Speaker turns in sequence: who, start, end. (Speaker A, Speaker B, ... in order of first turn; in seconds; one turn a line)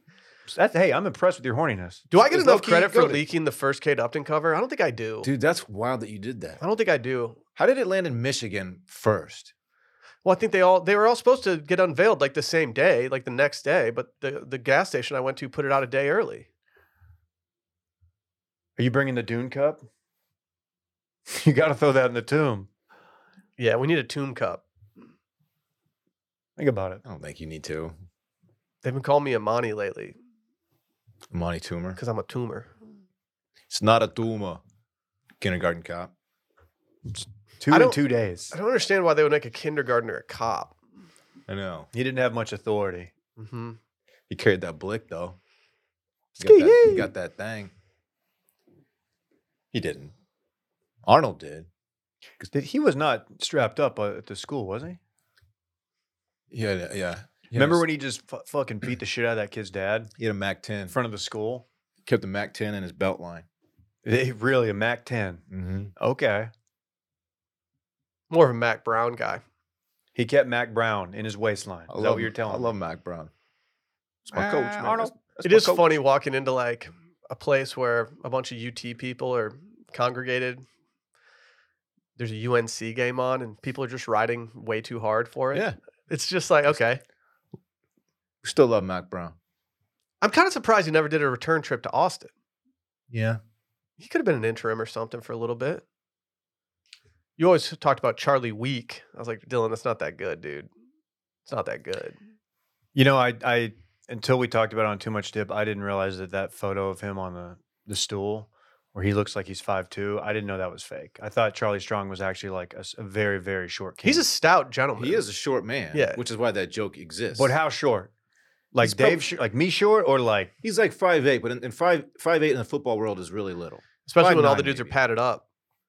Speaker A: 0.5-2.1
Speaker B: 2.1-5.3
Speaker C: 2.3-3.2
Speaker C: 5.2-6.6
Speaker B: 6.6-7.4
Speaker C: 7.5-9.5
Speaker B: 10.2-16.5
Speaker A: 18.8-19.8
Speaker A: 21.3-22.7
Speaker B: 23.6-24.6
Speaker A: 26.6-27.0
Speaker C: 27.0-27.9
Speaker B: 28.8-30.1
Speaker C: 31.3-32.0
Speaker B: 32.0-32.7
Speaker C: 33.7-34.6
Speaker C: 35.4-36.1
Speaker A: 37.0-38.5
Speaker B: 37.7-38.0
Speaker B: 38.5-40.7
Speaker C: 41.5-41.9
Speaker A: 41.9-43.1
Speaker B: 43.4-43.8
Speaker C: 44.3-45.4
Speaker C: 46.4-47.7
Speaker B: 46.4-47.1
Speaker C: 49.7-50.1
Speaker C: 51.0-51.7
Speaker A: 52.5-55.0
Speaker C: 56.5-57.8
Speaker A: 57.5-60.1
Speaker C: 60.2-60.9
Speaker A: 60.9-61.6
Speaker C: 62.0-63.5
Speaker A: 64.0-65.4
Speaker C: 65.5-65.9
Speaker A: 66.0-66.5
Speaker B: 68.3-69.4
Speaker A: 70.1-72.7
Speaker C: 71.9-73.3
Speaker C: 74.2-75.9
Speaker A: 74.3-75.1
Speaker B: 75.4-80.6
Speaker B: 82.2-87.0
Speaker C: 88.4-89.3
Speaker B: 90.2-92.3
Speaker C: 93.1-93.4
Speaker B: 94.0-95.8
Speaker B: 97.4-100.7
Speaker B: 101.5-102.2
Speaker A: 102.9-114.2
Speaker B: 114.0-115.2
Speaker C: 115.0-117.5
Speaker B: 115.9-116.2
Speaker A: 117.3-118.1
Speaker A: 118.7-120.5
Speaker C: 118.8-119.2
Speaker C: 120.6-125.0
Speaker B: 124.0-125.4